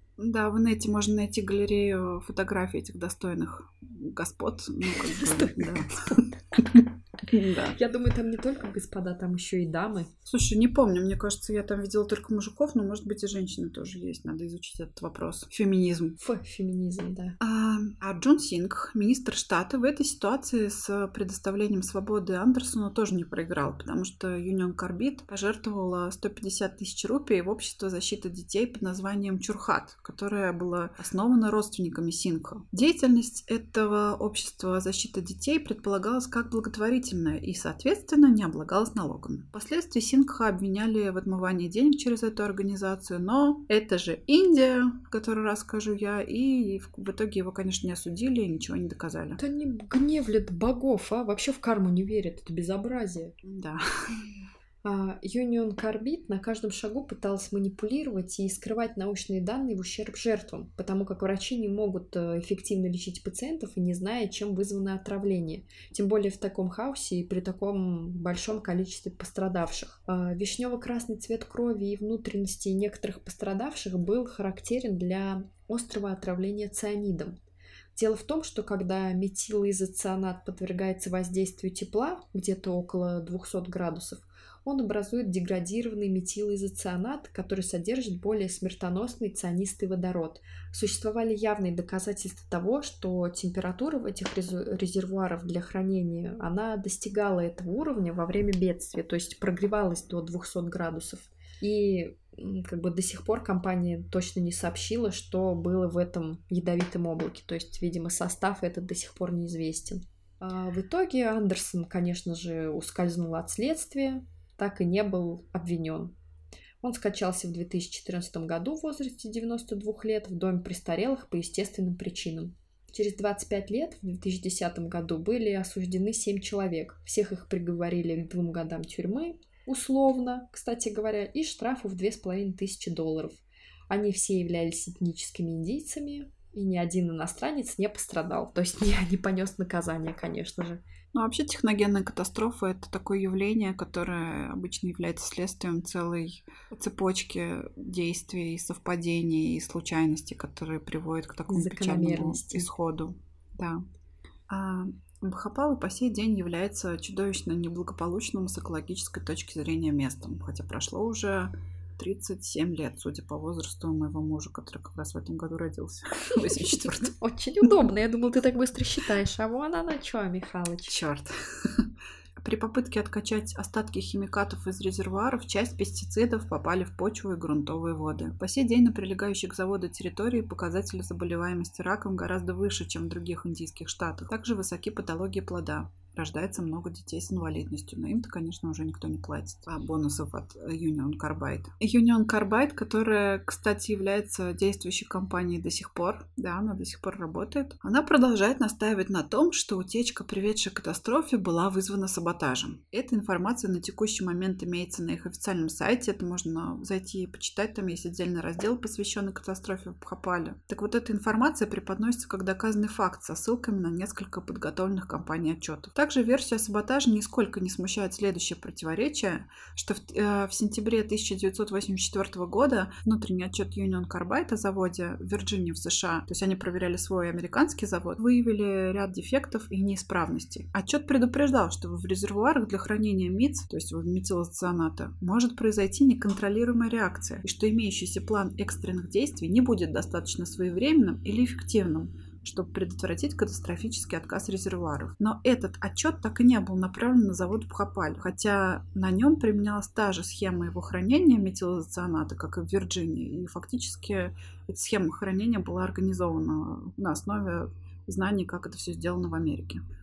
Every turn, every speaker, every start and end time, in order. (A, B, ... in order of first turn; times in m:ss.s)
0:00.2-0:07.8 A
0:04.8-0:06.6 B
0:07.7-0:10.1 B
0:10.3-0:16.2 A
0:16.2-0:17.4 B
0:17.4-0:49.4 A
0:49.4-0:53.4 B
0:53.4-0:54.4 A
0:54.8-1:17.4 B
1:18.0-1:56.2 B
1:56.8-2:20.8 B
2:21.1-2:33.8 A
2:31.5-2:32.7 B
2:34.5-2:47.1 A
2:46.3-2:51.0 B
2:50.9-4:19.8 A